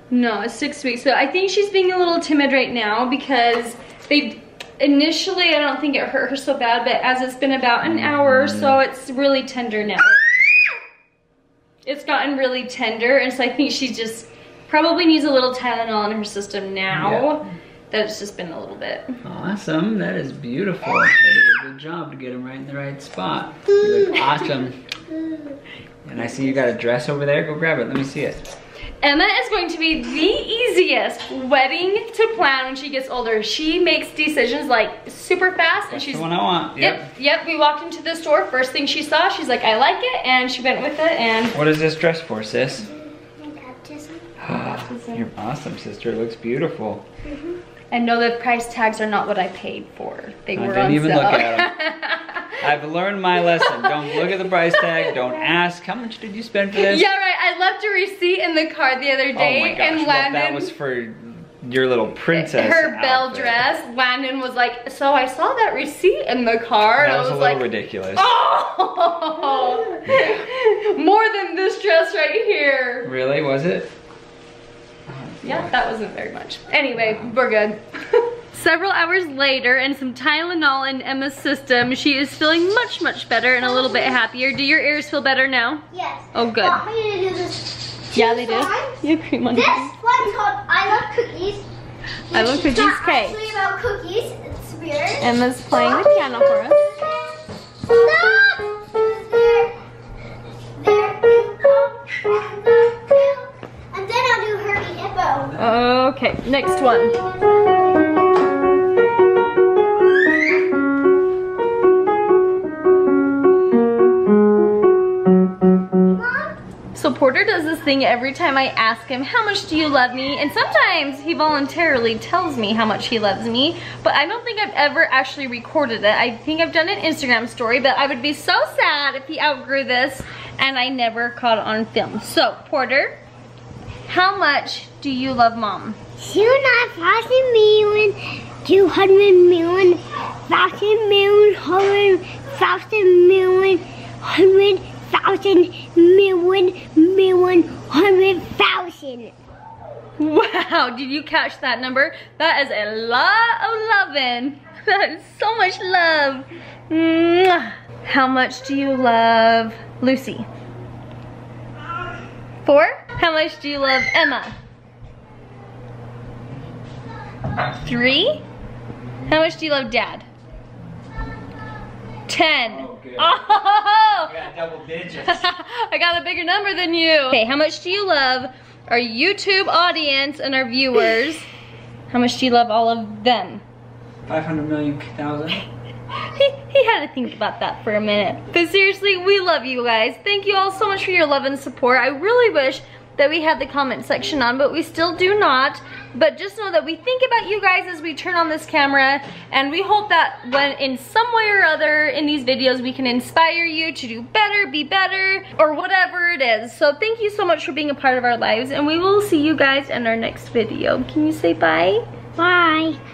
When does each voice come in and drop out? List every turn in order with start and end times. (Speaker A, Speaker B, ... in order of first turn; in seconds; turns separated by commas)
Speaker A: 0.1-10.3, Speaker B: 7.9-8.8, Speaker A: 11.8-19.2, Speaker B: 16.9-17.4, Speaker B: 19.2-24.8, Speaker C: 25.1-25.5, Speaker B: 26.0-28.5, Speaker A: 29.0-41.6, Speaker B: 35.9-37.1, Speaker B: 41.5-42.9, Speaker C: 42.8-44.2, Speaker B: 44.4-47.0, Speaker A: 44.6-45.2, Speaker C: 47.2-47.6, Speaker A: 47.9-52.5, Speaker B: 50.5-51.7, Speaker B: 52.5-57.0, Speaker A: 53.4-55.4, Speaker A: 56.8-60.7, Speaker B: 59.3-63.6, Speaker A: 62.3-73.1, Speaker B: 67.0-68.3, Speaker B: 73.0-73.9, Speaker B: 75.1-75.7, Speaker A: 75.4-86.8, Speaker C: 83.6-84.2, Speaker C: 85.9-91.7, Speaker A: 88.1-89.9, Speaker A: 92.3-93.5, Speaker C: 92.3-97.3, Speaker A: 95.2-96.8, Speaker C: 97.8-99.8, Speaker C: 100.8-105.6, Speaker A: 105.5-107.2, Speaker C: 106.7-108.2, Speaker C: 116.1-116.6, Speaker A: 116.9-133.2, Speaker A: 134.1-136.0, Speaker C: 136.2-149.3, Speaker A: 150.2-160.5, Speaker A: 162.6-164.5, Speaker A: 167.8-168.4, Speaker B: 169.0-169.3, Speaker A: 169.3-170.2, Speaker A: 172.3-174.3, Speaker B: 172.7-173.4, Speaker B: 174.3-175.5, Speaker A: 175.1-181.5, Speaker A: 182.1-183.6, Speaker B: 184.2-185.6, Speaker A: 186.1-212.0, Speaker C: 212.4-213.0